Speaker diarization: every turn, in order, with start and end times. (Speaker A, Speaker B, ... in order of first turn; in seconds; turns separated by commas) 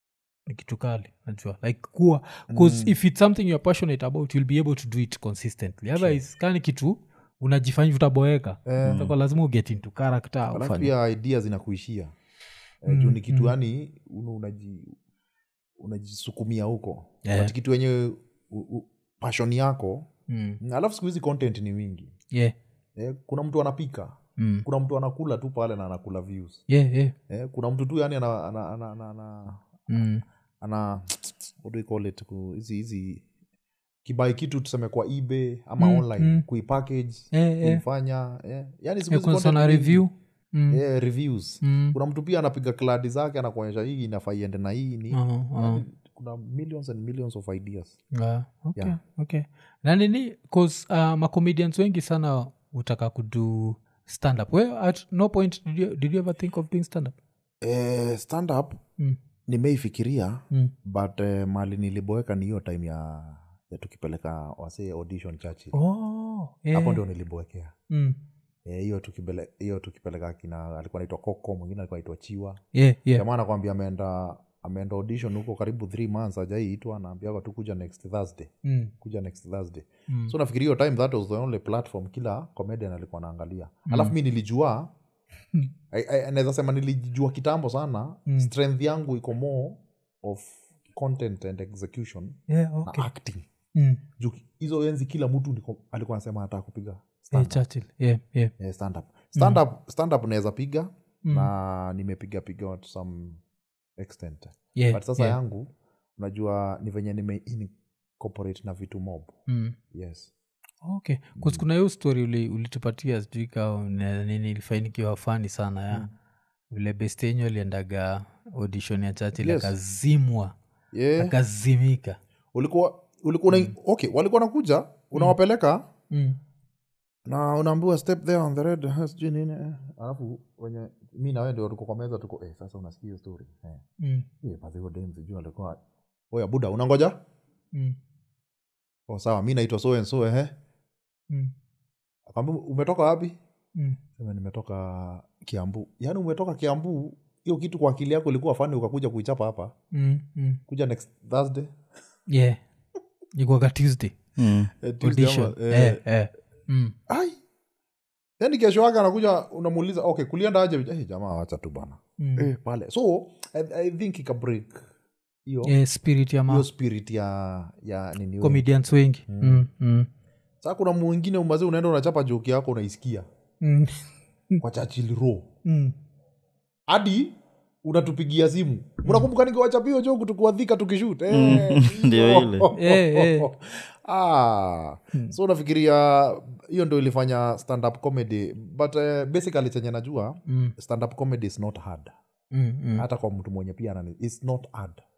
Speaker A: 0.5-10.9, Speaker B: 2.5-3.0, Speaker B: 8.7-9.1, Speaker C: 8.8-9.2, Speaker B: 10.5-12.1, Speaker B: 12.8-15.0, Speaker A: 12.9-13.5, Speaker B: 15.8-20.1, Speaker A: 17.2-17.5, Speaker A: 20.3-20.6, Speaker B: 20.6-22.1, Speaker B: 23.0-26.6, Speaker A: 24.4-24.7, Speaker A: 26.7-27.1, Speaker B: 27.3-30.0, Speaker A: 29.9-30.2, Speaker B: 30.6-33.2, Speaker B: 34.0-40.0, Speaker A: 35.8-36.5, Speaker A: 37.3-37.8, Speaker A: 39.1-40.8, Speaker B: 40.7-48.0, Speaker A: 41.6-42.0, Speaker A: 45.1-45.8, Speaker A: 48.1-57.2, Speaker B: 57.6-58.8, Speaker B: 59.5-65.8, Speaker A: 65.7-67.0, Speaker B: 66.7-67.7, Speaker A: 67.9-68.2, Speaker B: 68.7-72.6, Speaker A: 72.7-73.2, Speaker B: 73.2-84.9, Speaker A: 78.7-78.9, Speaker A: 80.1-80.3, Speaker A: 83.9-84.2, Speaker B: 85.9-93.5, Speaker A: 92.5-93.1, Speaker A: 93.8-94.0, Speaker B: 94.2-97.6, Speaker A: 97.3-98.5, Speaker B: 98.6-103.4, Speaker A: 101.2-101.5, Speaker B: 104.0-109.4, Speaker A: 104.8-105.4, Speaker A: 109.5-109.8, Speaker B: 109.9-110.3, Speaker A: 110.8-116.1, Speaker B: 111.4-111.6, Speaker A: 116.7-120.5, Speaker B: 119.4-119.8, Speaker B: 120.9-121.3, Speaker A: 121.2-122.2, Speaker B: 122.5-125.9, Speaker A: 126.1-126.4, Speaker B: 127.3-133.8, Speaker A: 134.0-134.3, Speaker B: 134.4-135.8, Speaker B: 136.3-137.2, Speaker B: 139.1-140.5, Speaker B: 142.3-143.4, Speaker B: 144.2-149.7, Speaker A: 149.9-150.6, Speaker B: 150.7-151.7, Speaker A: 152.3-152.6, Speaker A: 153.3-154.2, Speaker C: 154.4-154.7, Speaker B: 154.8-156.0, Speaker A: 155.0-156.9, Speaker B: 157.1-157.4, Speaker B: 158.4-164.8, Speaker A: 162.2-162.5, Speaker B: 165.5-165.8, Speaker A: 165.7-166.7, Speaker B: 166.5-168.6, Speaker A: 168.4-170.1, Speaker B: 169.3-169.6, Speaker B: 170.6-173.3, Speaker A: 173.6-174.6, Speaker B: 174.6-175.5, Speaker A: 175.7-175.9, Speaker B: 176.9-192.1, Speaker C: 181.3-182.7, Speaker A: 182.7-183.5, Speaker A: 190.5-190.7, Speaker A: 192.5-193.1, Speaker B: 193.0-195.0